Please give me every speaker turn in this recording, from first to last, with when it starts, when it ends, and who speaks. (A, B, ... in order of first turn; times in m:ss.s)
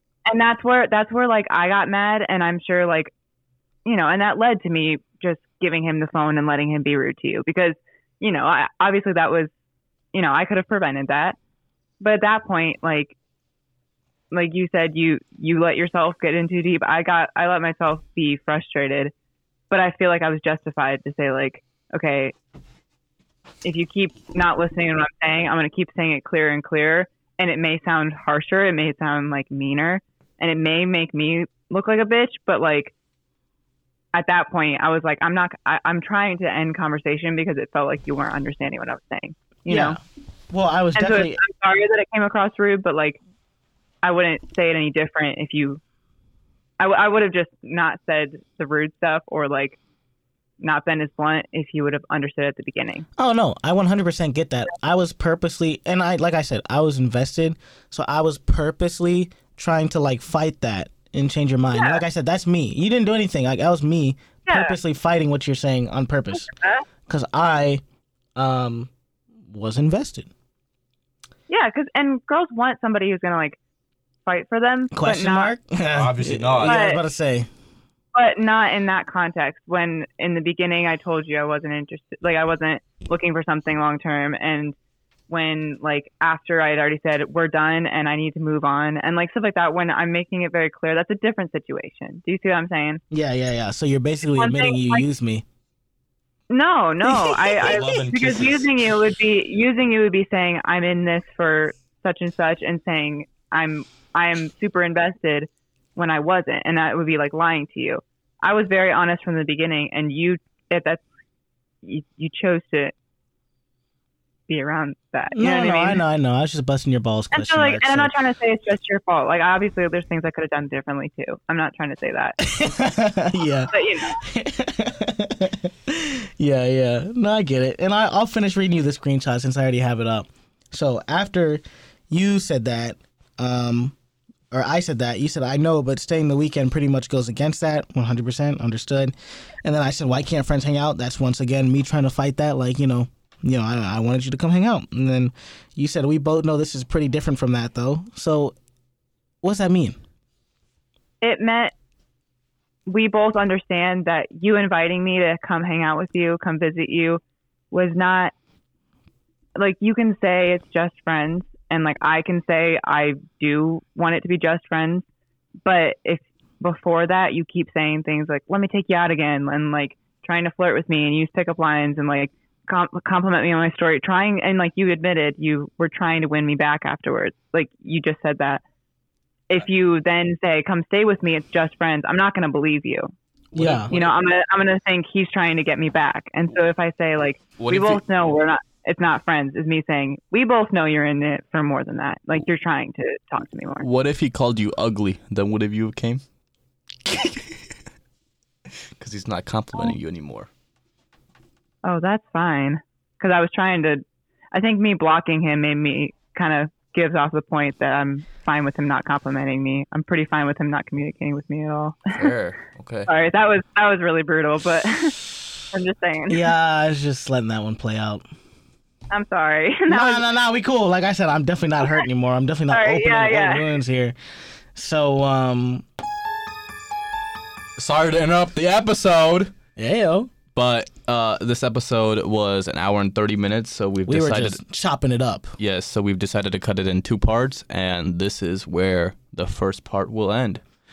0:00.3-0:03.1 A
0:03.8-0:09.5 A
0:10.1-0:11.4 A
0:12.0-0:13.2 A
0:14.3-0:19.1 A
0:19.7-0:22.3 A
0:23.6-0:32.9 A
0:34.1-0:40.0 A
0:39.7-0:40.0 B
0:40.5-0:41.4 B
0:41.0-0:43.2 A
0:44.0-0:45.8 A
0:46.8-0:49.8 A
0:50.6-0:53.1 A
0:53.2-1:06.5 B
1:01.8-1:02.0 A
1:04.5-1:04.8 A
1:06.3-1:06.8 A
1:07.1-1:07.8 B
1:08.4-1:08.9 B
1:09.5-1:10.3 B
1:11.5-1:13.6 A
1:14.3-1:15.5 A
1:14.9-1:17.5 B
1:16.0-1:16.8 C
1:16.6-1:17.0 A
1:18.1-1:24.8 A
1:25.3-1:33.0 A
1:33.1-1:35.4 B
1:34.4-1:35.1 A
1:36.5-1:51.0 A
1:37.1-1:37.9 B
1:37.6-1:38.9 C
1:51.8-1:52.9 A
1:54.5-1:56.0 A
1:55.3-1:58.1 B
1:57.3-2:02.4 A
2:02.4-2:14.0 B
2:03.7-2:04.2 A
2:14.5-2:28.6 B
2:29.4-2:30.0 B
2:31.2-2:31.7 A
2:32.9-2:38.3 A
2:39.6-2:45.1 A
2:45.7-2:58.6 A
2:59.5-3:03.1 A
3:03.5-3:04.1 C
3:03.6-3:03.9 B
3:03.9-3:13.9 A
3:07.6-3:08.0 C
3:13.8-3:16.2 C
3:17.1-3:17.4 C
3:19.0-3:20.5 C
3:21.8-3:32.3 A
3:32.2-3:33.1 C
3:33.1-3:36.5 A
3:36.3-3:38.2 B
3:39.1-3:40.2 A
3:39.9-3:44.2 B
3:42.7-3:43.6 A
3:44.8-3:45.8 B
3:47.8-3:49.5 C
3:49.8-3:50.3 B
3:50.5-3:54.6 C
3:54.1-3:55.5 B
3:55.6-4:00.6 C